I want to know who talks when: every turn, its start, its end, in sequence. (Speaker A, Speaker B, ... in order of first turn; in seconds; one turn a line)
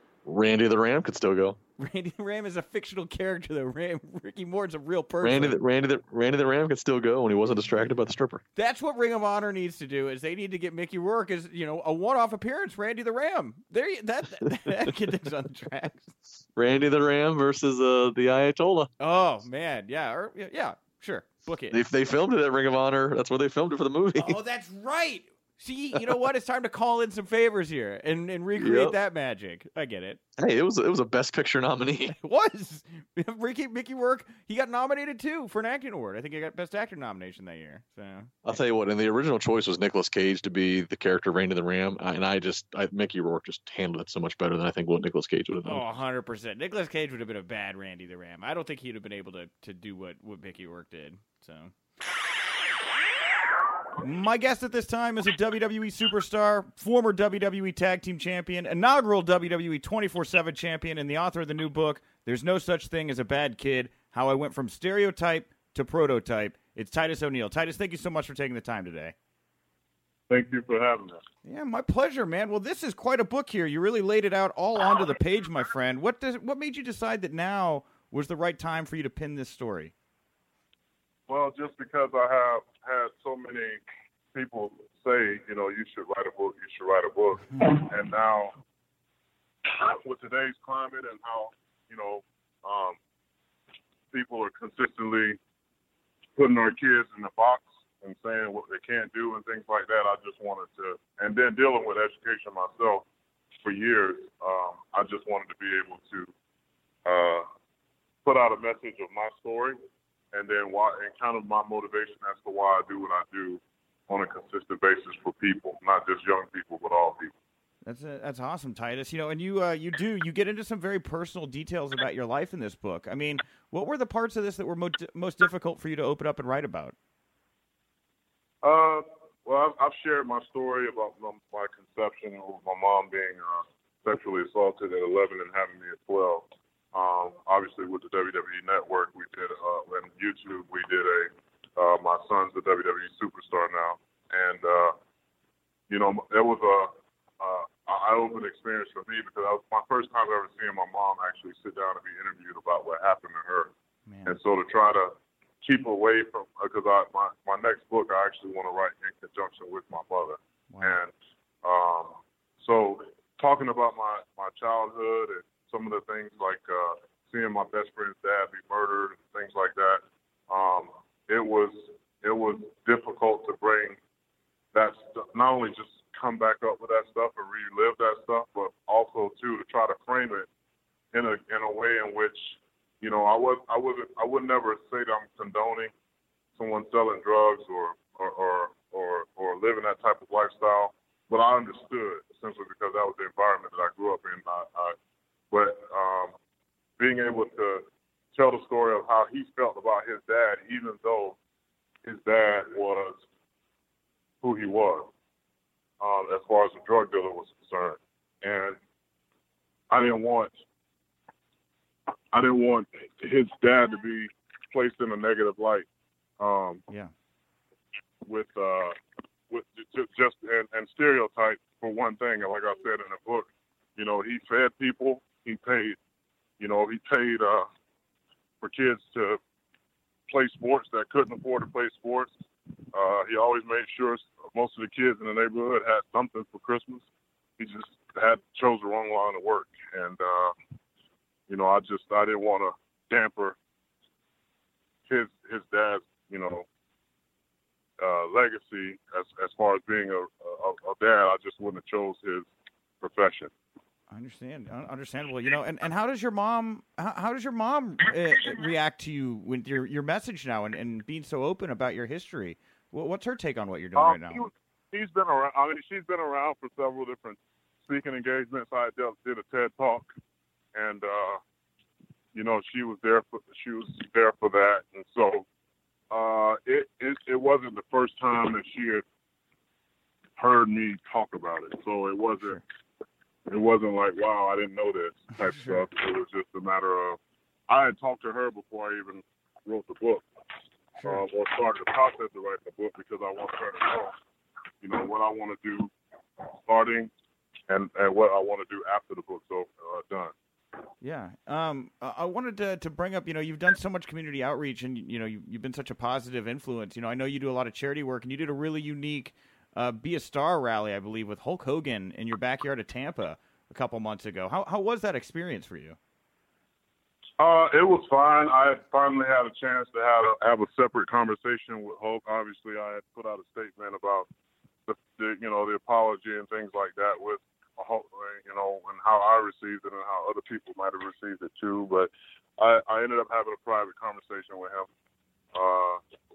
Speaker A: 0.2-1.6
Speaker B: 1.8-5.6
Speaker A: 5.2-8.4
Speaker B: 8.6-16.1
Speaker A: 16.6-18.9
Speaker B: 19.0-21.8
Speaker A: 21.7-24.4
Speaker B: 24.2-30.2
Speaker A: 28.6-28.9
Speaker A: 30.4-32.1
Speaker B: 32.2-38.3
Speaker A: 38.5-45.8
Speaker B: 45.6-51.7
Speaker B: 54.0-69.1
Speaker C: 70.3-71.2
Speaker B: 71.5-79.9
Speaker C: 81.3-83.8
Speaker C: 84.3-88.5
Speaker C: 89.7-93.0
Speaker C: 94.1-95.4
Speaker C: 96.4-103.1
Speaker C: 103.6-106.3
Speaker C: 107.0-107.5
Speaker C: 108.2-109.8
Speaker C: 110.3-117.3
Speaker B: 117.8-127.0
Speaker C: 128.6-145.0
Speaker C: 145.9-153.7
Speaker B: 154.1-154.3
Speaker C: 154.3-161.1
Speaker B: 160.7-161.0
Speaker C: 161.6-174.0
Speaker C: 174.7-180.5
Speaker C: 181.1-185.9
Speaker C: 186.6-195.0
Speaker C: 195.5-196.3
Speaker C: 197.0-201.4
Speaker C: 202.1-203.2
Speaker C: 204.4-205.1
Speaker C: 206.0-208.8
Speaker C: 209.9-210.5
Speaker C: 212.3-215.9
Speaker C: 216.4-216.8
Speaker C: 218.2-219.0
Speaker C: 219.5-226.0
Speaker C: 226.6-227.7
Speaker C: 228.6-229.4
Speaker C: 230.3-232.3
Speaker C: 232.9-237.1
Speaker C: 237.6-240.6
Speaker C: 241.5-243.6
Speaker C: 245.1-246.7
Speaker C: 248.0-252.5
Speaker C: 253.0-253.5
Speaker B: 254.1-264.5
Speaker C: 264.0-270.1
Speaker C: 270.7-271.4
Speaker C: 272.3-275.5
Speaker C: 276.1-279.0
Speaker C: 280.4-282.6
Speaker C: 283.5-290.2
Speaker C: 291.0-294.1
Speaker C: 294.8-295.9
Speaker C: 296.4-297.1
Speaker C: 297.7-300.3
Speaker B: 301.0-316.0
Speaker C: 317.4-324.3
Speaker C: 324.9-334.9
Speaker C: 335.5-336.0